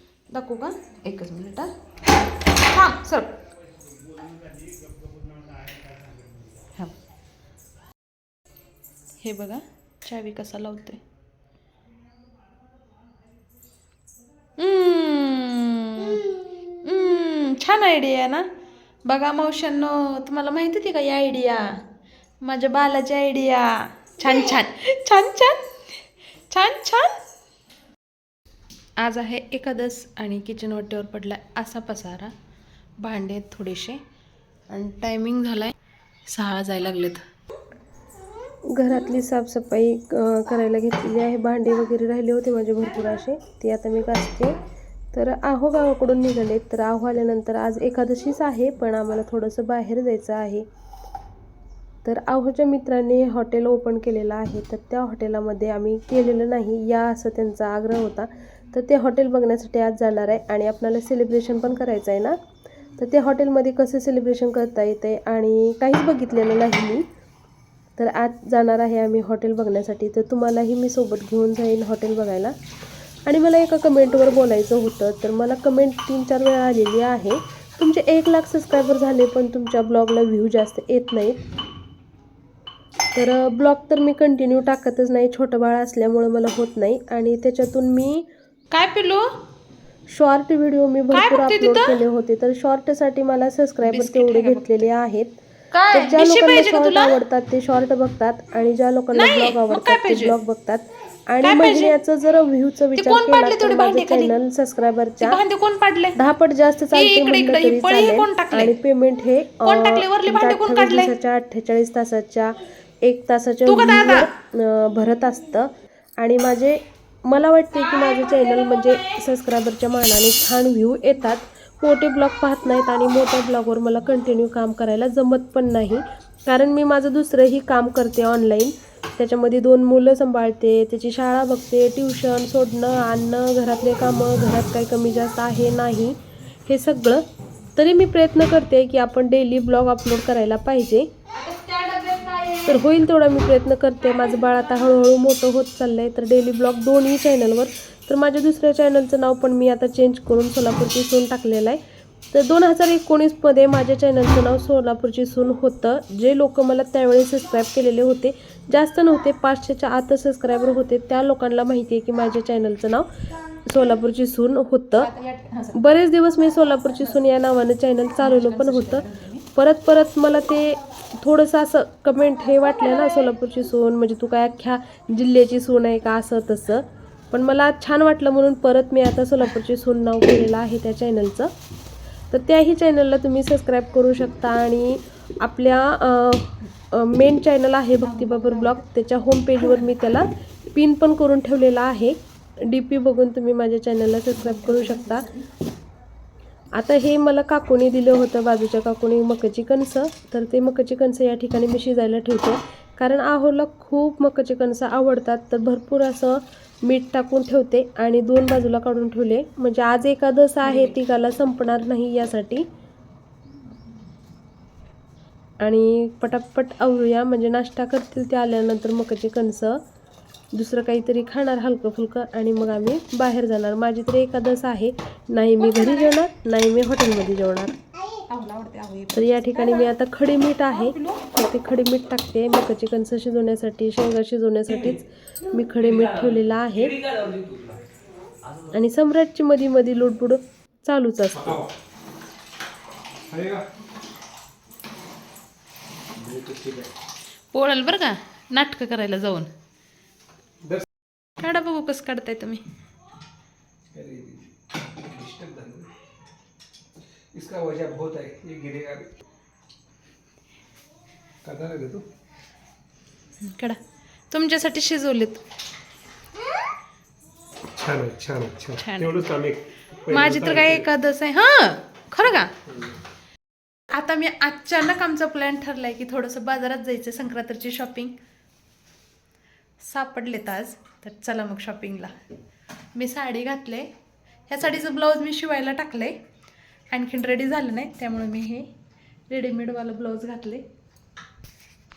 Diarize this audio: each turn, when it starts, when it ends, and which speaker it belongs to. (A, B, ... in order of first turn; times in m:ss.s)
0:00.3-0:01.7 A
0:02.5-0:03.3 A
0:06.0-0:06.5 B
0:09.2-0:11.0 A
0:14.6-0:18.5 A
0:19.0-0:21.7 A
0:22.4-0:27.2 A
0:29.0-0:32.3 A
0:33.0-0:34.0 A
0:34.7-0:35.7 A
0:36.3-0:37.2 A
0:38.8-0:44.6 C
0:45.1-0:50.7 C
0:52.0-1:02.4 C
1:03.0-1:07.1 C
1:08.0-1:12.5 C
1:13.3-1:21.4 C
1:23.1-1:28.3 C
1:28.7-1:29.3 A
1:30.1-1:35.4 C
1:31.1-1:32.0 A
1:33.8-1:34.8 A
1:35.7-1:37.2 A
1:35.9-1:45.4 C
1:39.1-1:40.4 A
1:41.4-1:42.0 A
1:43.0-1:44.3 A
1:45.2-1:46.2 A
1:46.2-2:17.2 C
1:46.9-1:48.8 A
1:49.6-1:51.1 A
1:53.7-1:54.3 A
1:57.9-1:59.2 A
2:17.8-2:21.1 C
2:21.3-2:22.8 A
2:22.7-2:31.8 C
2:32.3-2:43.1 C
2:43.6-2:45.1 C
2:45.0-2:45.8 A
2:45.7-3:01.5 C
2:48.2-2:49.4 A
3:02.3-3:15.3 C
3:08.0-3:08.8 A
3:14.4-3:15.4 A
3:16.7-3:32.7 C
3:30.6-3:31.0 A
3:35.6-3:39.8 C
3:40.5-3:47.7 C
3:45.6-3:46.2 A
3:48.1-3:49.9 A
3:49.1-3:57.0 C
3:50.7-3:51.2 A
3:55.8-3:57.8 B
3:58.7-4:01.6 C
4:01.3-4:01.7 B
4:03.3-4:03.7 B
4:06.2-4:06.9 B
4:07.5-4:09.5 A
4:11.4-4:12.6 A
4:13.9-4:15.9 B
4:17.3-4:19.1 B
4:21.4-4:22.1 B
4:23.4-4:23.8 A
4:24.3-4:25.4 A
4:27.8-4:30.9 B
4:28.8-4:29.2 A
4:30.1-4:32.5 A
4:32.7-4:33.0 B
4:33.9-4:38.1 A
4:39.8-4:42.1 A
4:43.0-4:43.9 A
4:44.5-4:46.2 A
4:46.9-4:48.7 A
4:49.3-4:50.6 A